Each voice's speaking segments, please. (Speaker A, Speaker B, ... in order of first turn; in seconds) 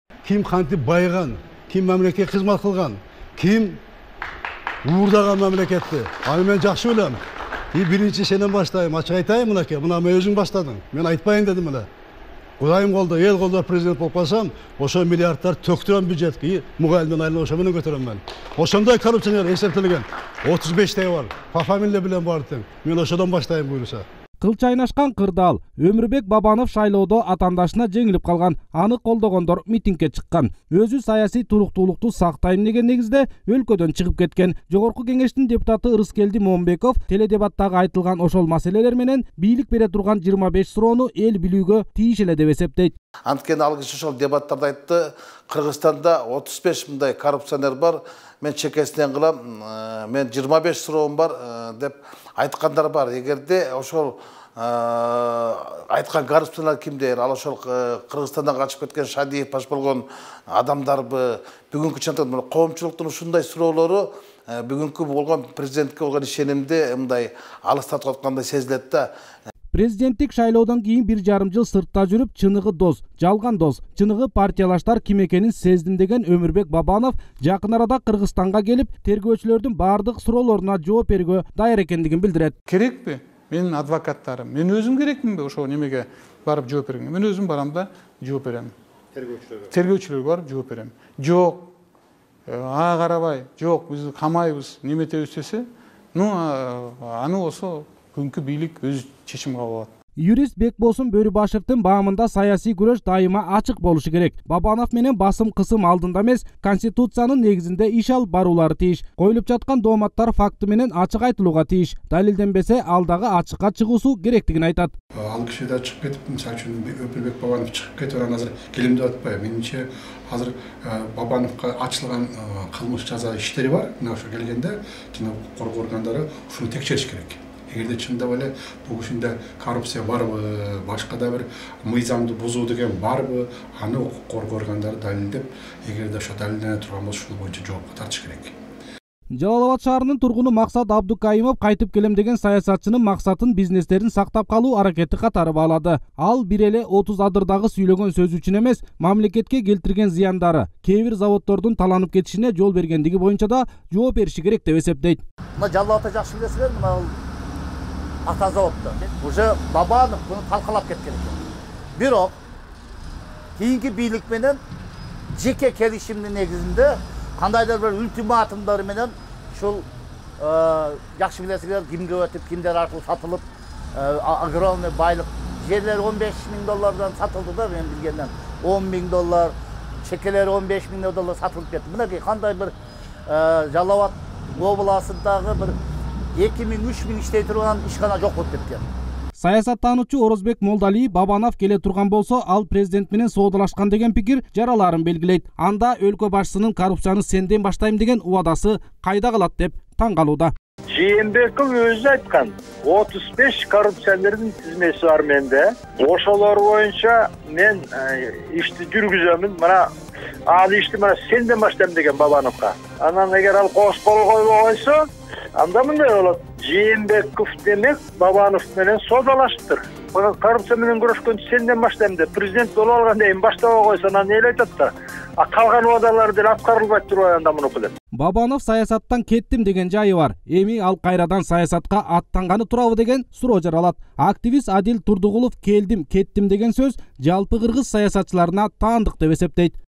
Speaker A: 0.2-3.8, 4.8-7.2, 7.7-11.9, 12.6-24.0
Speaker B: 24.4-42.9, 69.7-82.5, 100.2-114.9, 139.3-155.2, 189.3-200.5, 228.2-239.8
Speaker C: 43.3-69.1
Speaker D: 82.7-91.7, 92.5-99.9
Speaker E: 115.2-138.5
Speaker F: 155.6-157.1, 158.2-161.4, 161.9-162.3, 163.6-164.6, 165.3-169.8, 170.4-173.4, 173.9-179.5, 180.0-182.7, 183.3-185.8, 186.3-188.8
Speaker G: 200.9-209.8, 210.5-215.0, 215.6-227.9